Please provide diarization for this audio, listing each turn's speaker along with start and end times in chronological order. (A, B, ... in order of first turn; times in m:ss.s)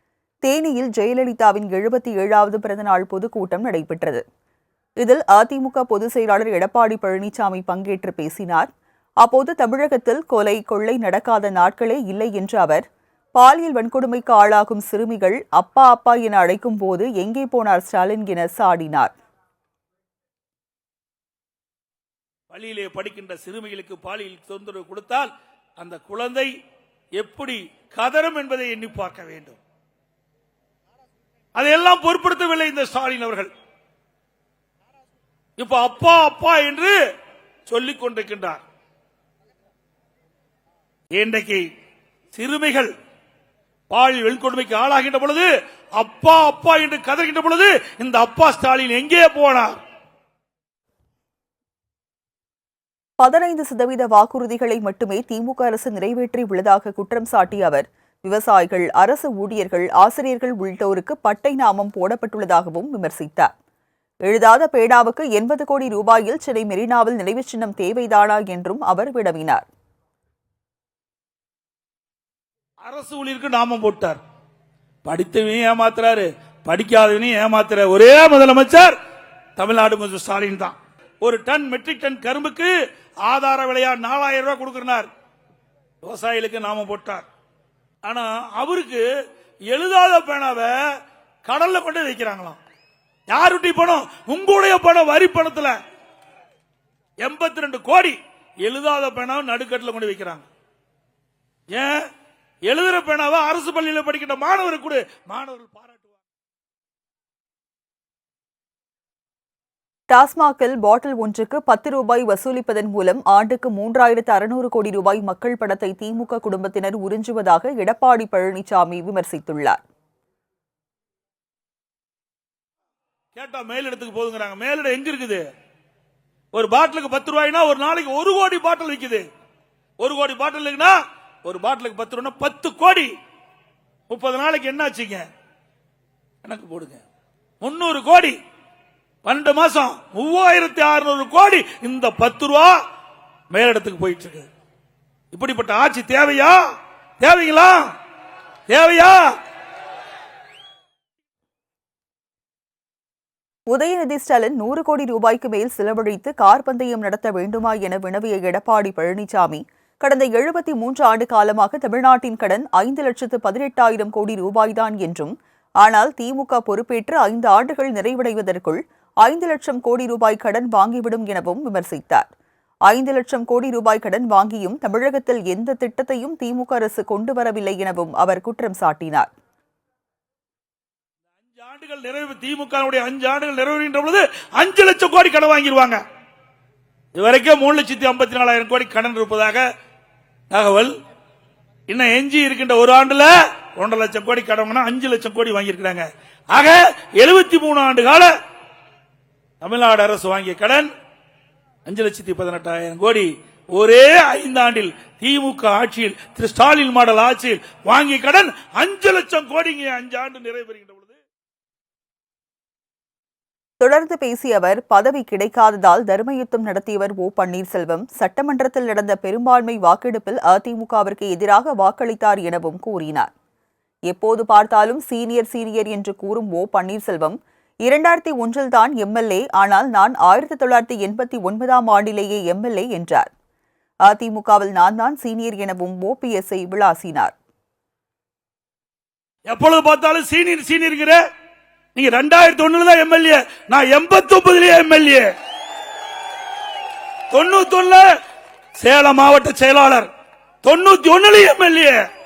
0:00.4-0:04.2 A
0:05.0-0:08.7 A
0:09.2-0:19.1 A
0:22.5-0:26.5 B
0:27.2-0:29.6 B
0:31.6-0:33.5 B
0:35.6-0:37.0 B
0:37.7-0:38.6 B
0:41.2-0:41.6 B
0:42.3-0:42.9 B
0:43.9-0:49.8 B
0:53.2-1:03.5 A
1:04.3-1:09.7 A
1:12.8-1:14.2 B
1:15.0-1:19.0 B
1:19.6-1:22.7 B
1:23.2-1:25.1 B
1:26.0-1:27.2 B
1:28.0-1:29.0 B
1:29.7-1:30.8 B
1:31.4-1:32.6 B
1:33.3-1:35.8 B
1:37.2-1:40.5 B
1:41.7-1:42.0 B
1:42.7-1:46.2 B
1:50.1-1:59.8 A
2:03.4-2:05.4 B
2:06.5-2:09.2 B
2:10.0-2:13.1 B
2:14.1-2:15.3 B
2:16.4-2:17.0 B
2:17.6-2:18.4 B
2:19.2-2:22.8 B
2:23.5-2:24.5 B
2:25.3-2:26.6 B
2:27.2-2:27.9 B
2:28.7-2:29.3 B
2:33.7-2:52.3 A
2:52.9-2:59.3 A
3:01.5-3:06.0 B
3:07.2-3:09.6 B
3:10.5-3:10.9 B
3:11.9-3:18.3 B
3:19.6-3:20.9 B
3:21.9-3:31.2 B
3:33.8-3:43.3 A
3:44.1-3:53.3 A
3:54.1-3:57.4 A
3:59.5-4:01.2 B
4:02.0-4:05.3 B
4:07.3-4:08.0 B
4:08.8-4:10.1 B
4:10.6-4:12.0 B